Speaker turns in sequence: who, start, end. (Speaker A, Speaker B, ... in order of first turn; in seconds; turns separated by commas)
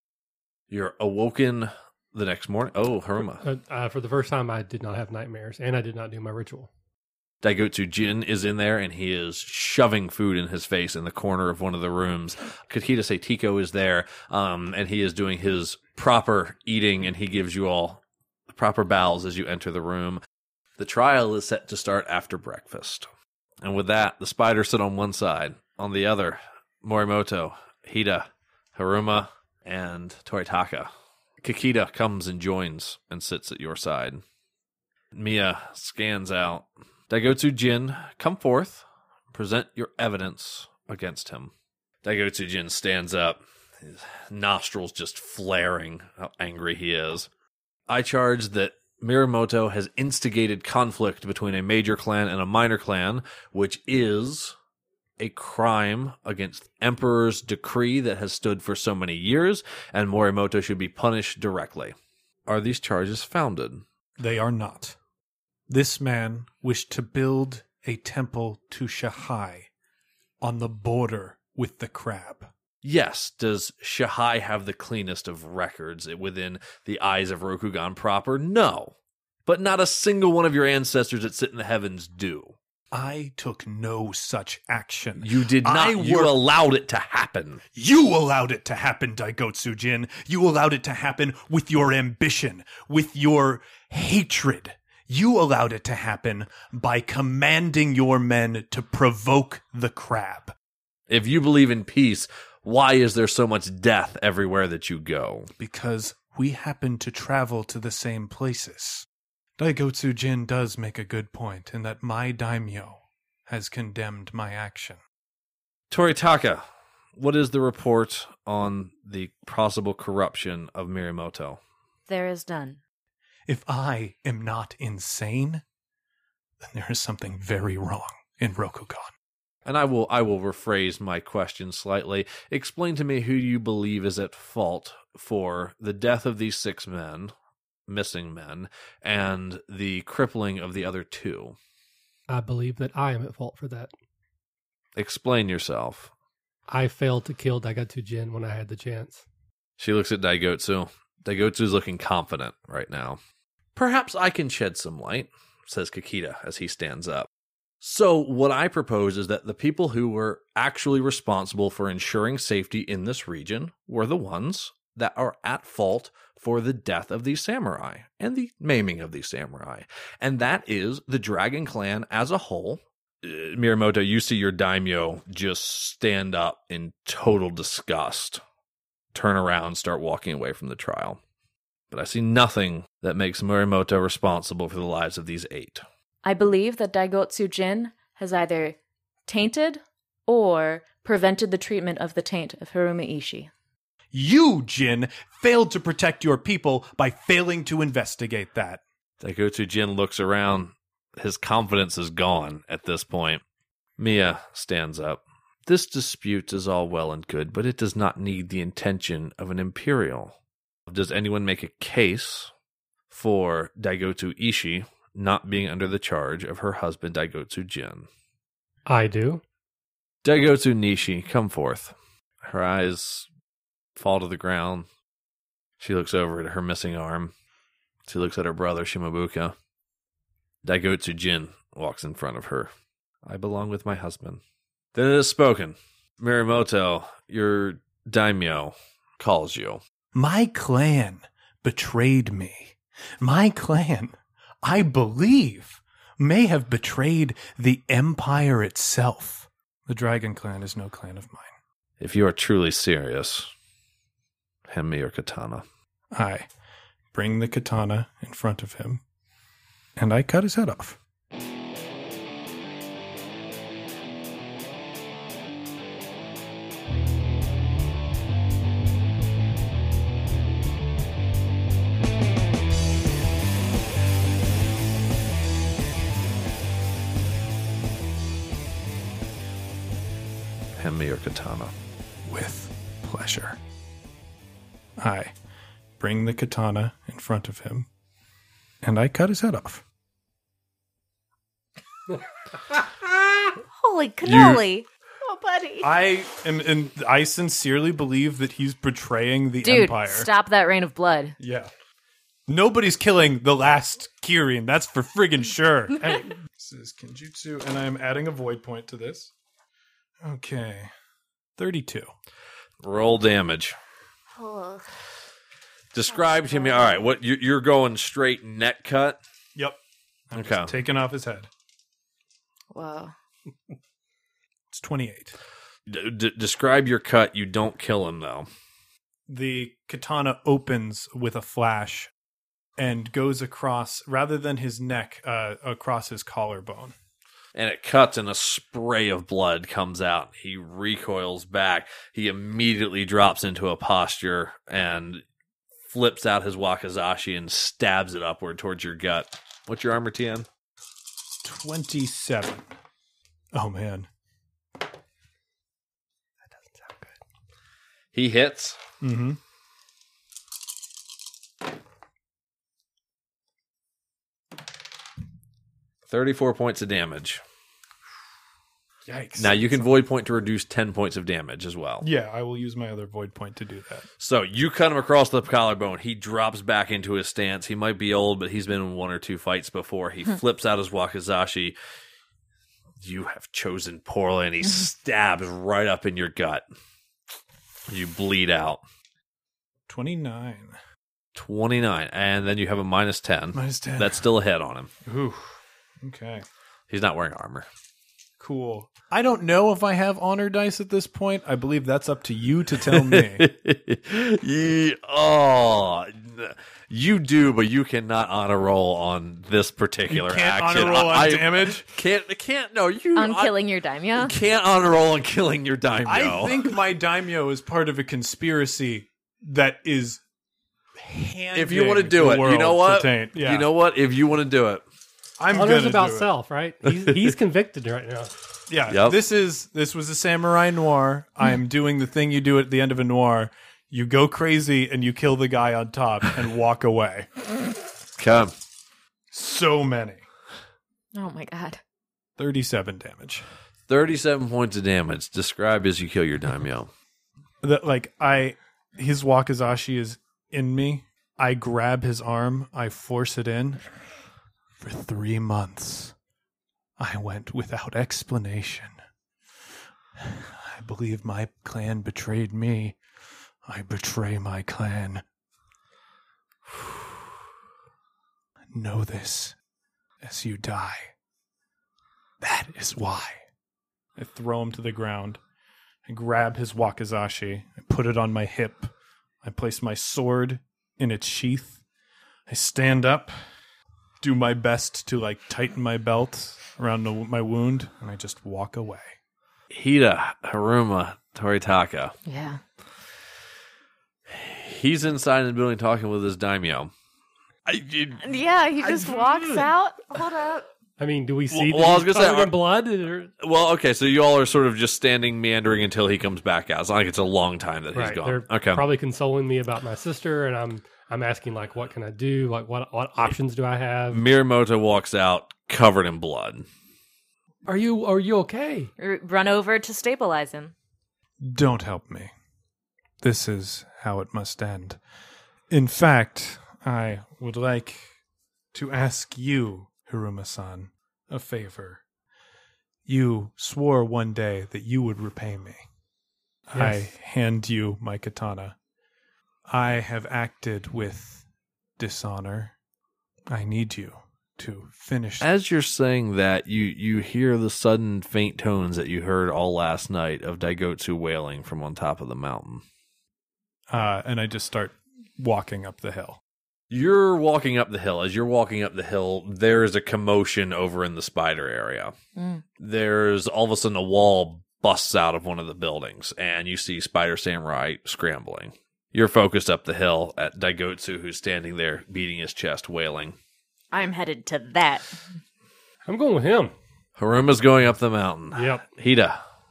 Speaker A: 0.7-3.4, Speaker B: 3.4-6.7, Speaker A: 7.4-20.2, Speaker A: 20.8-23.1, Speaker A: 23.6-30.9, Speaker A: 31.4-34.2, Speaker A: 35.1-41.5, Speaker A: 42.0-47.3, Speaker A: 47.9-54.5, Speaker A: 55.2-61.9, Speaker A: 62.5-63.8, Speaker C: 64.2-65.0, Speaker C: 65.7-69.7, Speaker C: 70.4-72.5, Speaker A: 72.8-78.9, Speaker A: 79.5-82.5, Speaker C: 82.9-86.3, Speaker A: 85.2-87.6, Speaker C: 87.7-100.5, Speaker A: 101.1-105.5, Speaker C: 105.6-115.0, Speaker A: 115.9-116.6, Speaker A: 117.2-121.6, Speaker D: 122.1-122.8, Speaker C: 123.5-125.6, Speaker C: 126.6-129.1, Speaker A: 129.6-137.3, Speaker A: 137.9-141.6, Speaker B: 142.3-143.9, Speaker A: 144.9-146.1, Speaker B: 146.7-149.2, Speaker A: 149.8-153.2, Speaker A: 153.7-157.3, Speaker A: 157.8-178.4, Speaker A: 179.1-181.2, Speaker A: 181.9-185.8, Speaker D: 186.2-193.5, Speaker C: 194.1-198.8, Speaker A: 199.2-203.4, Speaker A: 204.0-210.3, Speaker A: 210.9-212.5, Speaker A: 213.1-218.1, Speaker B: 218.8-219.4, Speaker A: 220.2-223.2, Speaker A: 223.9-224.8, Speaker A: 225.8-227.3, Speaker A: 228.1-229.5, Speaker A: 230.6-232.7, Speaker A: 233.2-234.4, Speaker A: 234.9-239.8, Speaker C: 240.1-251.6, Speaker A: 252.0-253.5, Speaker A: 254.7-255.6, Speaker C: 256.1-256.5, Speaker C: 257.1-259.0, Speaker C: 260.0-261.0, Speaker A: 280.8-281.7, Speaker C: 282.2-283.6, Speaker C: 285.0-285.3, Speaker C: 286.0-287.9, Speaker C: 288.8-289.8, Speaker D: 293.7-295.9, Speaker A: 294.2-294.6, Speaker C: 295.8-300.3, Speaker D: 299.6-301.4, Speaker C: 301.4-301.7, Speaker C: 302.5-309.3, Speaker D: 306.0-306.3, Speaker C: 310.2-310.9, Speaker C: 311.6-312.1, Speaker A: 312.8-313.8, Speaker D: 314.3-314.9, Speaker A: 315.9-319.2, Speaker D: 316.1-316.9, Speaker C: 320.3-321.5, Speaker A: 320.3-320.8, Speaker D: 322.7-323.1, Speaker C: 324.7-325.4, Speaker A: 325.9-328.5, Speaker C: 329.3-332.1, Speaker C: 332.8-336.9, Speaker A: 337.5-345.2, Speaker A: 345.9-350.5, Speaker C: 351.4-352.7, Speaker C: 353.5-354.1, Speaker C: 356.5-357.1, Speaker A: 358.1-358.8, Speaker C: 359.0-359.4, Speaker A: 366.1-367.4, Speaker C: 369.0-369.9, Speaker A: 369.4-372.1, Speaker C: 372.0-374.1, Speaker A: 374.2-381.8, Speaker A: 383.0-386.6, Speaker A: 387.9-388.8, Speaker C: 389.9-390.8, Speaker A: 391.3-394.9, Speaker C: 393.5-394.2, Speaker C: 395.0-396.4, Speaker A: 396.9-397.6, Speaker C: 398.4-403.5, Speaker A: 402.9-413.5, Speaker C: 410.1-411.9, Speaker D: 413.1-414.3, Speaker A: 414.1-416.6, Speaker C: 416.0-420.2, Speaker C: 420.9-423.7, Speaker A: 421.5-424.8, Speaker C: 425.4-426.3, Speaker B: 425.5-428.3, Speaker C: 428.7-437.3, Speaker A: 428.9-429.2, Speaker A: 438.2-438.5, Speaker C: 439.3-440.2, Speaker D: 441.1-441.8, Speaker C: 442.4-443.4, Speaker A: 443.9-446.9, Speaker C: 447.6-453.8, Speaker C: 454.8-456.1, Speaker C: 457.0-459.0, Speaker C: 460.2-463.0, Speaker C: 463.6-465.2, Speaker C: 468.7-469.6, Speaker C: 470.2-471.1, Speaker C: 472.4-473.4, Speaker C: 474.1-475.4, Speaker C: 476.0-481.8, Speaker C: 482.5-483.4, Speaker C: 484.2-489.1, Speaker A: 489.7-492.1, Speaker D: 492.2-492.6, Speaker A: 494.3-496.9, Speaker A: 497.6-498.2, Speaker D: 498.2-500.7, Speaker A: 499.0-499.2, Speaker B: 501.0-503.3, Speaker A: 501.5-502.6, Speaker A: 503.4-508.8, Speaker B: 507.9-514.2, Speaker A: 514.1-516.6, Speaker B: 517.6-518.9, Speaker D: 519.0-520.7, Speaker C: 521.4-522.3, Speaker C: 523.2-525.0, Speaker C: 525.7-528.2, Speaker C: 528.7-532.0, Speaker C: 533.0-535.9, Speaker C: 536.7-538.8, Speaker B: 536.7-537.1, Speaker C: 539.7-541.5, Speaker C: 542.0-542.8, Speaker C: 543.5-545.5, Speaker A: 545.4-552.8, Speaker C: 553.9-556.4, Speaker A: 556.9-562.1, Speaker D: 562.4-562.6, Speaker A: 562.8-573.4, Speaker D: 573.9-575.2, Speaker B: 576.0-576.7, Speaker A: 577.2-579.4, Speaker B: 578.5-578.8